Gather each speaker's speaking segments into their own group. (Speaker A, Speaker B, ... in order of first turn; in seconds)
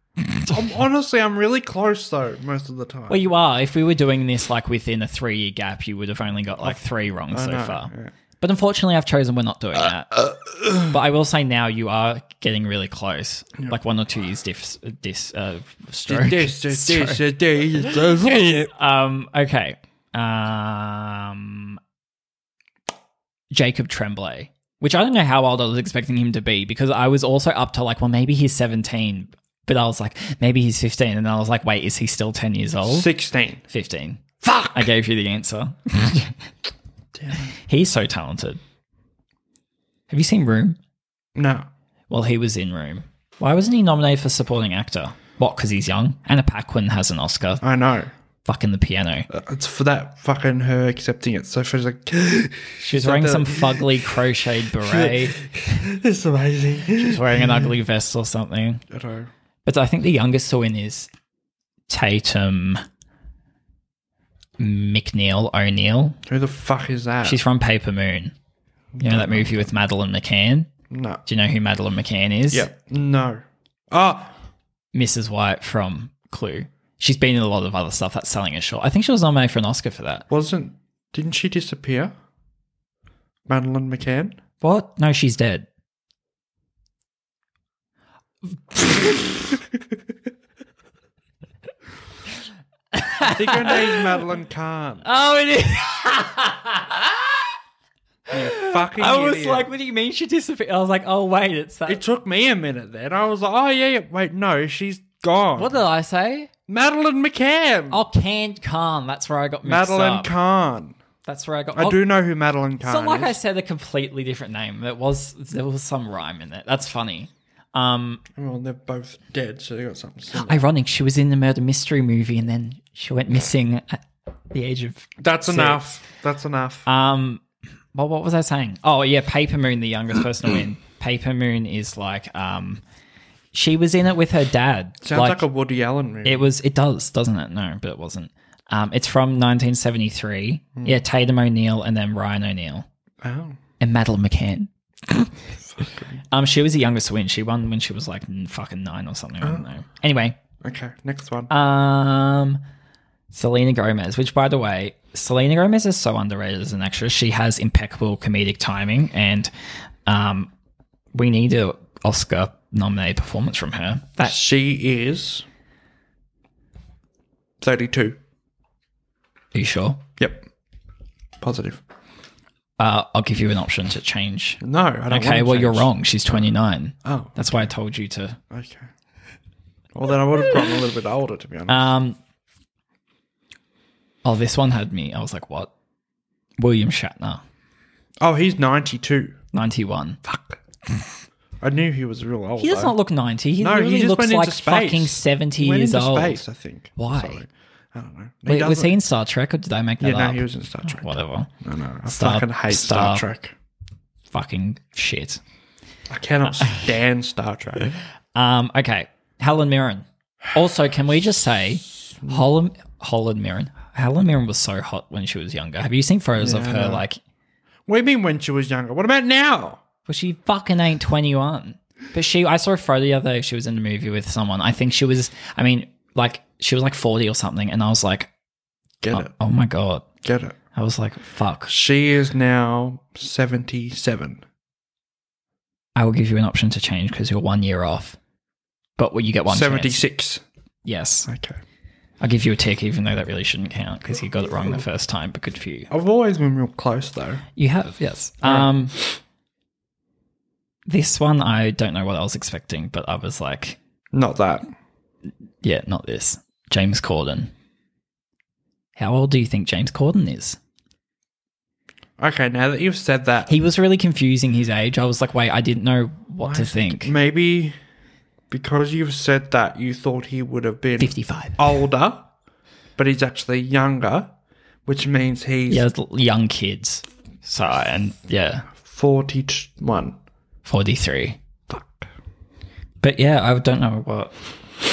Speaker A: 0.4-3.3, 6.6-8.1, 16.1-18.7, 32.8-33.6, 34.4-34.9, 37.1-37.5, 41.4-41.7, 47.6-48.1, 49.3-54.1, 54.8-57.7, 58.9-59.3, 66.3-67.4, 68.9-69.7, 70.9-71.2, 72.5-74.3, 80.3-82.1, 83.5-84.3, 93.2-95.0, 98.3-99.7, 101.8-105.8, 106.7-108.0, 109.6-111.0, 111.7-113.4, 118.3-120.6, 125.2-126.9, 135.0-136.5, 140.8-141.0, 143.2-143.6, 145.6-146.2, 149.4-149.7, 150.6-151.5, 164.2-165.4, 167.6-168.2, 170.2-170.4, 171.4-171.8, 174.6-176.5, 177.0-177.7, 178.5-178.9, 179.9-181.9, 188.2-189.3, 190.2-190.6, 191.6-193.0, 193.6-199.0, 200.0-203.5, 206.1-207.9, 212.2-212.5, 216.4-217.1, 217.9-219.8, 229.0-229.3, 230.2-230.6, 231.7-234.4, 239.5-240.4, 241.3-241.6, 245.9-247.4, 248.4-248.8, 254.1-254.7, 262.2-263.5, 266.4-267.7, 268.5-272.3, 273.0-274.3, 274.8-275.9, 278.8-280.1, 281.7-282.1
Speaker B: 3.1-18.1, 18.7-21.8, 23.5-33.1, 33.7-36.4, 37.6-38.6, 40.1-40.8, 42.1-47.6, 48.4-49.3, 52.8-55.4, 57.0-58.8, 59.6-61.1, 61.9-62.8, 64.6-66.2, 67.2-68.3, 69.0-70.7, 71.2-72.7, 74.9-80.2, 84.6-85.7, 88.7-89.1, 92.9-94.0, 95.0-97.4, 98.3-102.0, 105.5-106.5, 107.9-110.3, 111.2-112.0, 112.8-118.2, 120.3-125.9, 126.8-127.4, 127.9-132.8, 133.5-135.4, 136.2-142.8, 143.8-145.3, 146.3-150.4, 151.5-152.6, 153.3-159.5, 160.1-160.5, 161.1-164.4, 169.5-170.0, 172.8-178.4, 181.7-182.2, 184.2-185.7, 186.6-187.4, 189.5-190.2, 192.6-196.4, 197.0-197.4, 198.5-201.5, 202.1-203.2, 204.3-205.4, 208.3-217.2, 220.1-228.3, 229.1-230.0, 230.7-231.7, 235.9-238.2, 239.0-240.0, 240.8-241.3, 242.2-245.9, 247.6-248.9, 250.9-253.8, 255.6-257.5, 258.9-260.6, 263.5-267.1, 271.0-271.7, 275.7-278.7, 280.6-281.4, 283.0-284.3